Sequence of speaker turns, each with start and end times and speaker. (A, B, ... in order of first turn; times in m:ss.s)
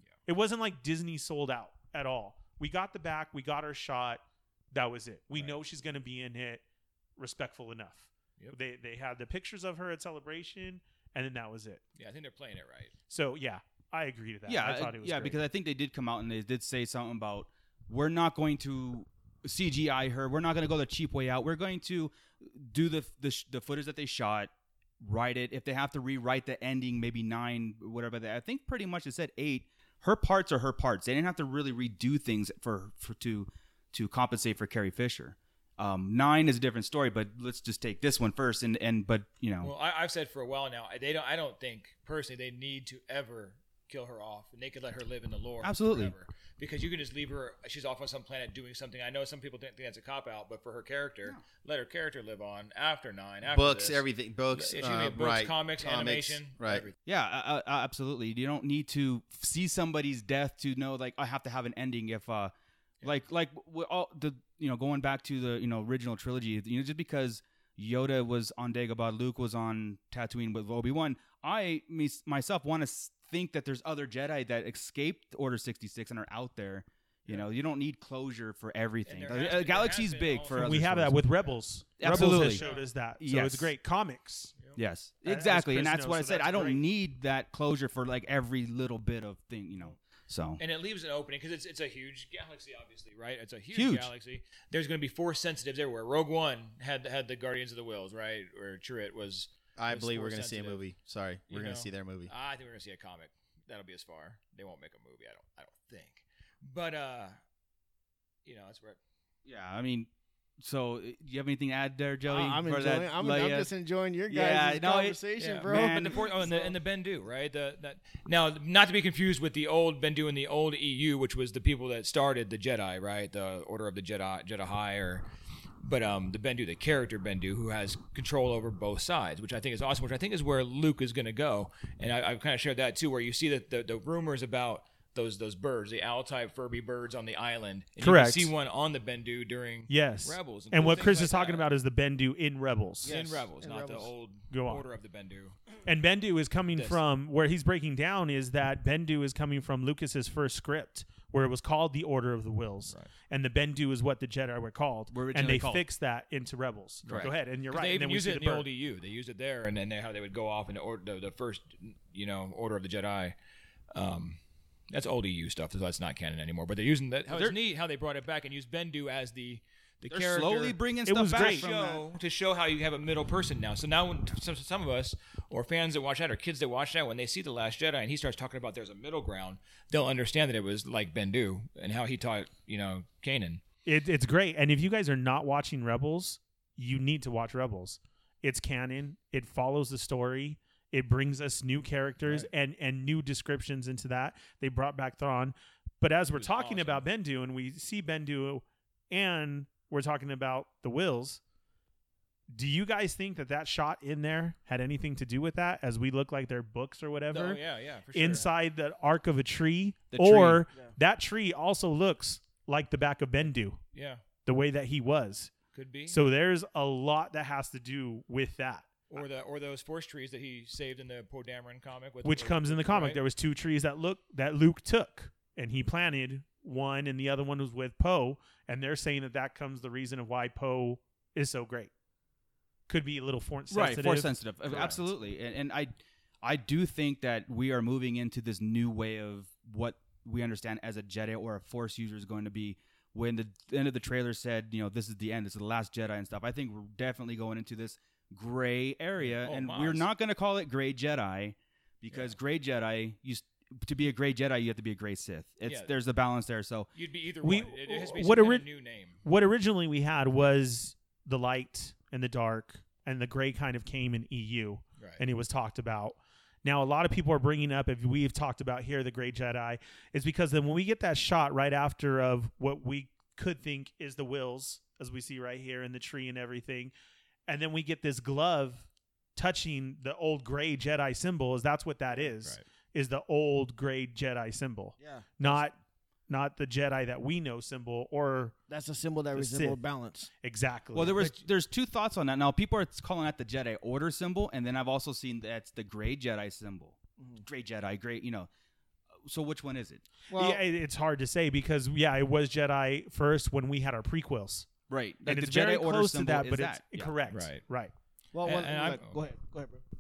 0:00.2-0:06.6 A
0:07.2-0:11.8 A
0:12.0-0:12.9 B
0:13.1-0:15.4 A
0:14.5-0:39.7 C
0:39.6-0:56.9 B
0:45.6-0:46.1 C
0:53.4-0:56.8 D
0:57.0-1:02.5 C
1:03.0-1:21.2 C
1:19.0-1:20.8 B
1:20.5-1:24.5 A
1:22.0-1:22.6 C
1:22.1-1:22.8 B
1:23.2-1:23.7 C
1:24.7-1:30.6 C
1:25.2-1:26.8 A
1:30.6-1:40.8 B
1:33.7-1:34.1 C
1:39.8-1:42.3 D
1:41.5-1:47.4 B
1:48.4-1:49.0 B
1:49.4-1:50.1 C
1:50.6-1:53.7 C
1:52.3-1:56.7 E
1:54.3-1:56.3 C
1:55.4-2:05.2 B
2:05.8-2:21.7 B
2:18.0-2:18.5 A
2:19.9-2:23.1 A
2:23.0-2:24.1 E
2:23.0-2:25.6 B
2:24.5-2:24.8 A
2:25.8-2:38.6 A
2:26.7-2:27.0 B
2:35.1-2:35.8 C
2:37.0-2:43.3 B
2:43.9-2:44.4 B
2:44.9-2:50.8 B
2:47.3-2:47.6 C
2:50.0-2:52.0 C
2:51.0-2:51.7 A
2:51.3-3:03.6 B
3:03.8-3:21.4 A
3:16.4-3:17.0 B
3:22.5-3:27.6 A
3:27.3-3:28.5 B
3:28.1-3:33.8 A
3:30.1-3:30.6 C
3:33.9-3:34.2 B
3:34.4-3:35.5 A
3:35.7-3:36.2 B
3:36.1-3:38.9 A
3:39.1-3:43.2 B
3:42.2-3:51.9 A
3:52.9-3:54.9 A
3:53.7-4:16.9 C
3:54.7-3:55.0 B
4:09.2-4:10.0 B
4:15.6-4:15.9 B
4:16.9-4:19.2 B
4:17.4-4:18.6 A
4:19.2-4:36.9 A
4:25.0-4:25.2 B
4:37.5-4:45.8 A
4:45.0-4:45.6 E
4:46.3-4:48.5 A
4:48.7-4:50.3 E
4:49.3-4:49.8 A
4:50.4-4:51.3 A
4:50.9-4:58.5 C
4:59.2-5:00.0 C
5:00.3-5:00.6 E
5:00.3-5:04.7 A
5:04.9-5:07.1 C
5:05.2-5:07.9 A
5:07.3-5:07.6 B
5:08.3-5:09.8 E
5:08.4-5:09.2 B